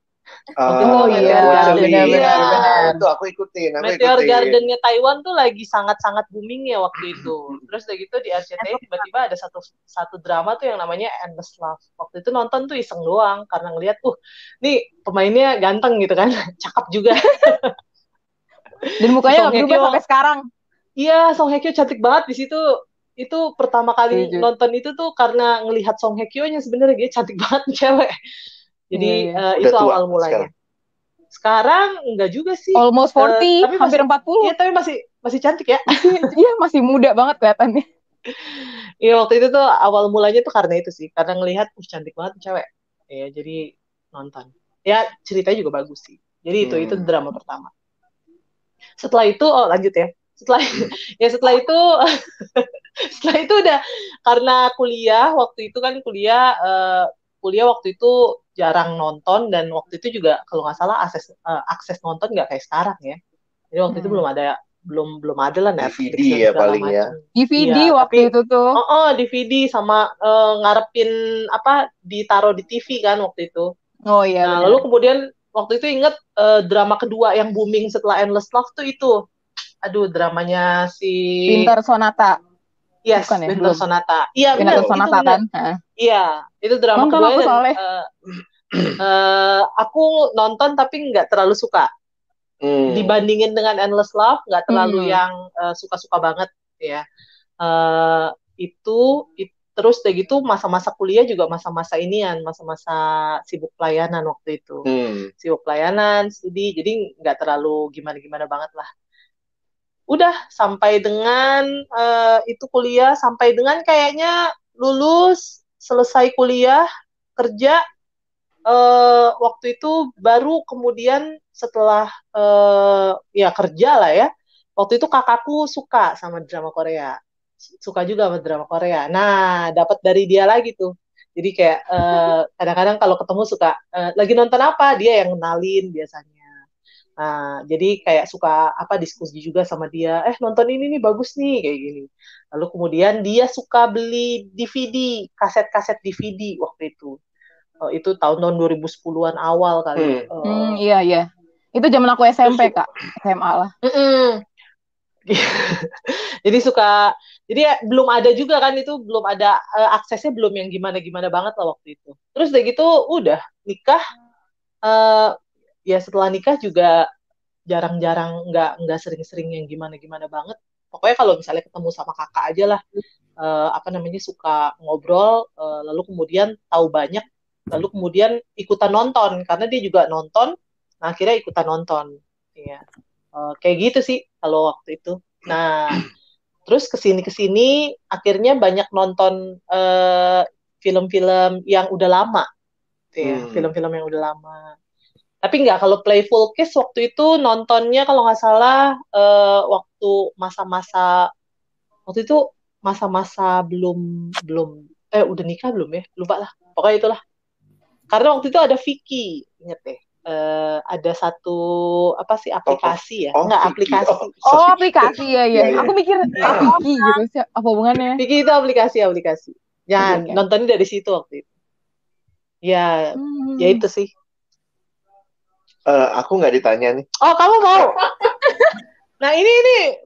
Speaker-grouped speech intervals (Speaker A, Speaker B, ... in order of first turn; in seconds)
Speaker A: 0.6-4.5, 29.6-30.5, 46.6-47.0, 65.8-67.1, 84.6-85.0, 92.6-93.2, 104.8-105.3, 150.0-150.2, 193.2-193.7, 212.7-216.8, 225.9-227.1
Speaker B: 0.7-3.0, 3.8-17.7, 18.8-20.0, 21.0-22.6, 23.2-28.1, 28.9-30.5, 31.3-36.3, 38.3-47.7, 49.0-51.8, 52.5-63.2, 63.7-73.7, 74.4-79.2, 79.8-81.7, 83.0-85.4, 86.0-88.1, 89.0-91.9, 92.9-97.0, 97.6-104.8, 105.4-108.9, 110.1-116.8, 117.4-117.8, 118.7-127.2, 127.8-136.4, 137.2-147.2, 147.8-150.8, 153.8-154.4, 155.3-164.0, 164.8-165.3, 165.9-167.0, 167.7-172.8, 173.4-182.8, 183.3-186.0, 186.7-192.4, 193.1-194.7, 195.4-201.1, 202.1-207.2, 208.1-211.6, 212.2-214.7, 215.7-216.8, 218.2-221.4, 222.7-224.1, 227.2-228.3, 229.2-229.8
Speaker C: 0.7-2.9, 19.0-20.4, 24.1-24.5, 28.9-29.4, 32.8-34.5, 35.9-37.8, 63.9-64.2, 67.3-68.8, 74.1-74.8, 81.5-82.4, 83.2-83.8, 84.6-85.8, 87.0-87.8, 94.7-95.2, 150.4-153.7, 214.4-218.2, 220.0-220.4, 223.2-223.8